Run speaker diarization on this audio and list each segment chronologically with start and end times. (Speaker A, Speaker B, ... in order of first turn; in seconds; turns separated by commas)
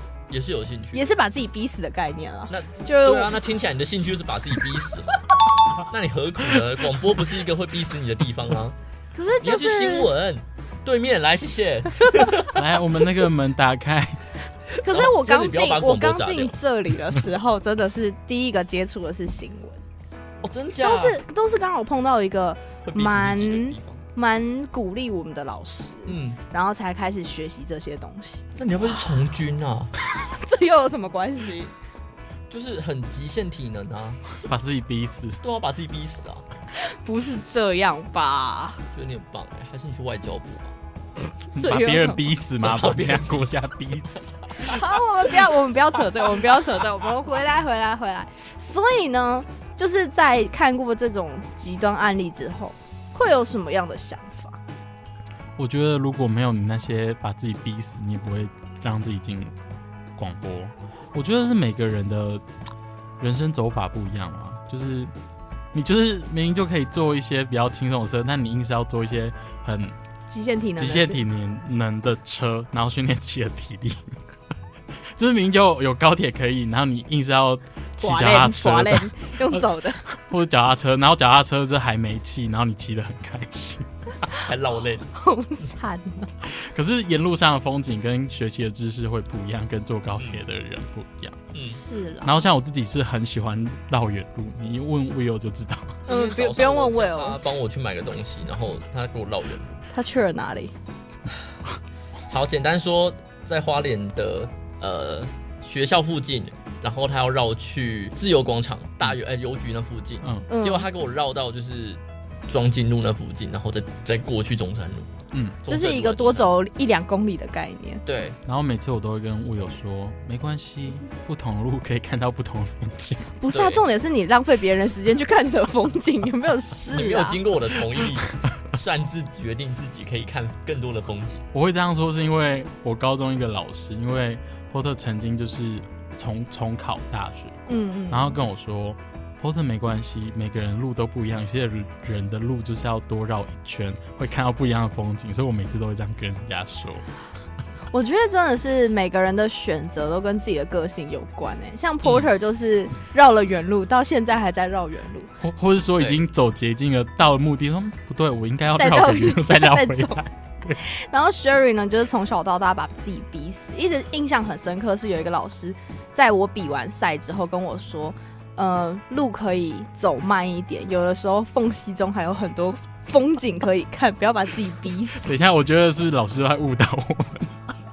Speaker A: 0.3-1.1, Speaker B: 0.9-3.4, Speaker A: 2.5-5.2, Speaker A: 5.8-8.8, Speaker B: 9.2-10.1, Speaker A: 9.4-12.6, Speaker C: 12.5-14.3, Speaker B: 14.8-19.8, Speaker A: 14.9-16.6, Speaker A: 20.4-21.2, Speaker B: 20.8-28.5, Speaker A: 22.9-24.0, Speaker A: 26.1-26.4, Speaker A: 28.6-29.9, Speaker B: 30.1-31.7, Speaker A: 32.5-34.2, Speaker C: 34.4-35.4, Speaker A: 35.4-36.5, Speaker B: 36.8-38.8, Speaker A: 38.9-40.7, Speaker B: 41.5-42.2, Speaker C: 41.5-44.3, Speaker A: 42.6-43.5, Speaker B: 44.6-54.6, Speaker C: 55.6-59.5, Speaker C: 60.2-62.4, Speaker C: 63.2-65.1, Speaker C: 65.7-70.0, Speaker B: 70.3-71.2, Speaker C: 70.8-74.2, Speaker C: 75.2-84.1, Speaker B: 78.0-80.1, Speaker A: 84.4-85.1, Speaker B: 85.2-86.5, Speaker C: 86.5-91.4, Speaker A: 91.5-91.8, Speaker B: 91.6-92.4, Speaker C: 92.2-96.0, Speaker A: 96.1-99.9, Speaker B: 96.1-97.4, Speaker B: 99.9-100.7, Speaker A: 102.3-116.5, Speaker C: 110.2-110.5, Speaker B: 110.5-110.9, Speaker C: 115.3-115.6, Speaker B: 115.7-118.0, Speaker A: 118.0-118.4, Speaker C: 118.5-123.3, Speaker B: 123.4-127.4, Speaker A: 123.5-123.8, Speaker A: 126.9-131.5, Speaker C: 131.5-147.1, Speaker B: 137.7-138.4, Speaker B: 147.9-155.3, Speaker C: 155.4-160.8, Speaker B: 158.8-160.2, Speaker B: 160.8-175.3, Speaker C: 175.2-177.7